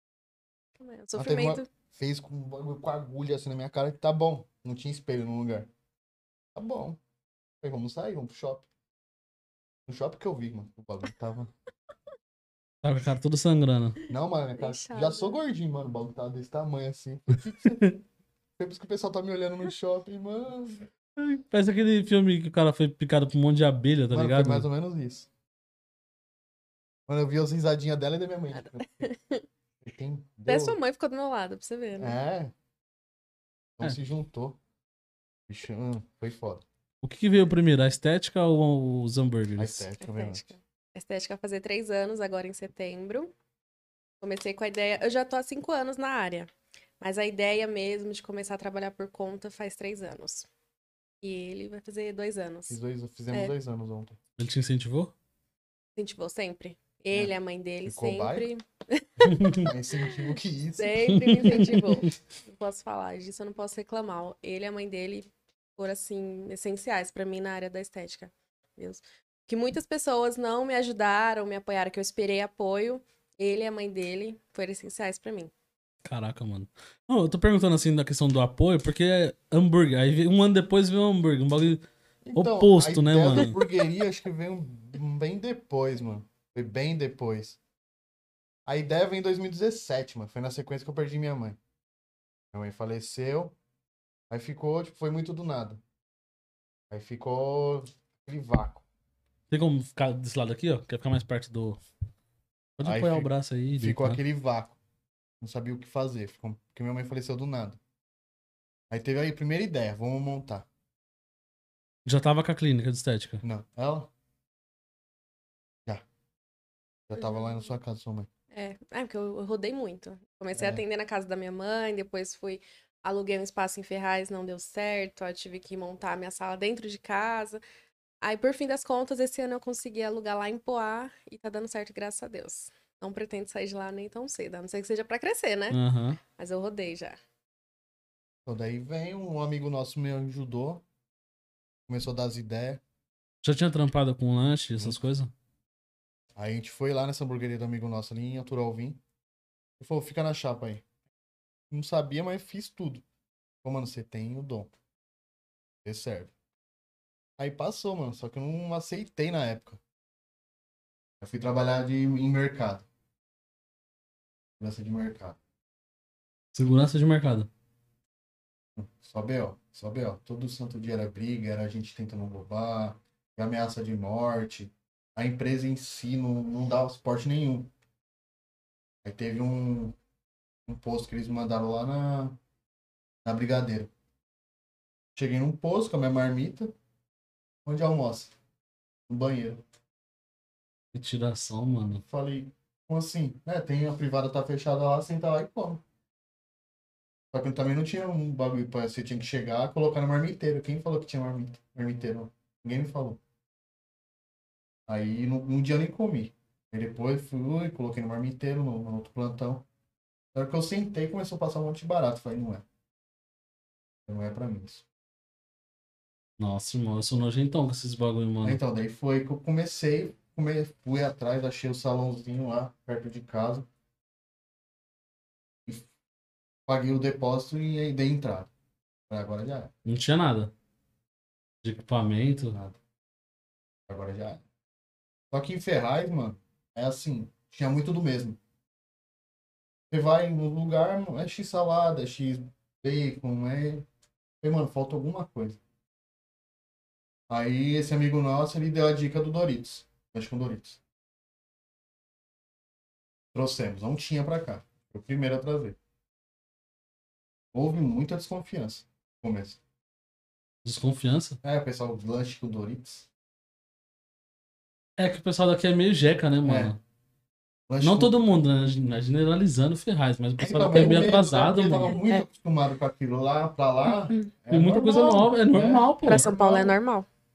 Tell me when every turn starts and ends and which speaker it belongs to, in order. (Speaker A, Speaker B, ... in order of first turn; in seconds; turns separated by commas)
Speaker A: 0.8-1.7, Speaker B: 1.2-5.7, Speaker B: 6.5-7.0, Speaker B: 7.6-8.7, Speaker B: 9.9-11.5, Speaker C: 12.8-14.0, Speaker B: 14.1-17.8, Speaker A: 14.6-15.4, Speaker C: 17.6-18.0, Speaker B: 18.6-20.9, Speaker C: 21.2-24.7, Speaker B: 24.1-25.3, Speaker B: 27.1-29.1, Speaker A: 28.8-29.4, Speaker B: 29.8-30.8, Speaker A: 30.5-32.2, Speaker B: 32.0-32.5, Speaker B: 33.8-34.6, Speaker B: 35.5-36.6, Speaker C: 37.0-39.9, Speaker B: 39.6-40.5, Speaker A: 40.0-43.3, Speaker A: 44.2-50.5, Speaker A: 51.2-52.8, Speaker B: 52.7-54.2, Speaker C: 54.4-55.1, Speaker A: 56.0-60.1, Speaker B: 57.9-58.5, Speaker C: 59.2-59.7, Speaker B: 59.6-61.6, Speaker A: 60.8-75.5, Speaker C: 61.1-62.1, Speaker C: 76.0-81.8, Speaker B: 82.2-87.6, Speaker C: 82.3-83.6, Speaker B: 88.7-91.6, Speaker B: 92.5-93.5, Speaker B: 94.3-95.8, Speaker B: 96.9-98.8, Speaker C: 99.5-101.8, Speaker C: 102.8-104.2, Speaker B: 102.8-104.8, Speaker B: 105.4-107.8, Speaker B: 108.9-110.7, Speaker C: 112.0-113.4, Speaker B: 113.4-114.1, Speaker B: 117.1-118.3, Speaker A: 117.2-117.6, Speaker A: 118.5-127.6, Speaker B: 120.5-120.8, Speaker A: 128.2-135.8, Speaker C: 135.7-136.2, Speaker A: 136.3-137.2, Speaker B: 138.5-140.8, Speaker B: 141.9-142.8, Speaker C: 143.4-145.3, Speaker B: 146.4-149.0, Speaker B: 149.8-150.8, Speaker B: 151.7-153.0, Speaker B: 153.6-154.7, Speaker B: 155.8-156.3, Speaker B: 157.4-159.8, Speaker B: 161.2-162.9, Speaker B: 164.6-165.4, Speaker C: 166.5-167.5, Speaker B: 168.8-177.7, Speaker B: 179.0-180.0, Speaker B: 180.7-182.4, Speaker B: 183.2-183.9, Speaker B: 185.2-186.7, Speaker B: 187.7-188.3, Speaker B: 189.1-189.6, Speaker C: 190.9-192.0, Speaker B: 192.1-195.8, Speaker B: 197.3-203.2, Speaker B: 204.9-209.7, Speaker B: 210.3-212.6, Speaker B: 214.1-214.8, Speaker C: 216.4-218.6, Speaker B: 218.4-223.7, Speaker B: 226.7-228.5, Speaker B: 229.1-229.7, Speaker C: 229.8-230.5, Speaker C: 231.6-232.6, Speaker B: 232.5-232.8, Speaker B: 233.9-234.4, Speaker B: 235.3-238.4, Speaker B: 239.9-243.9, Speaker B: 244.4-245.6, Speaker B: 247.3-250.8, Speaker B: 253.3-255.8, Speaker B: 257.5-259.6, Speaker C: 260.6-261.4, Speaker B: 261.4-263.1, Speaker C: 265.0-266.8, Speaker B: 266.4-266.7, Speaker B: 267.7-268.2, Speaker C: 267.8-272.0, Speaker B: 270.4-276.8, Speaker C: 274.5-276.3, Speaker A: 276.0-277.1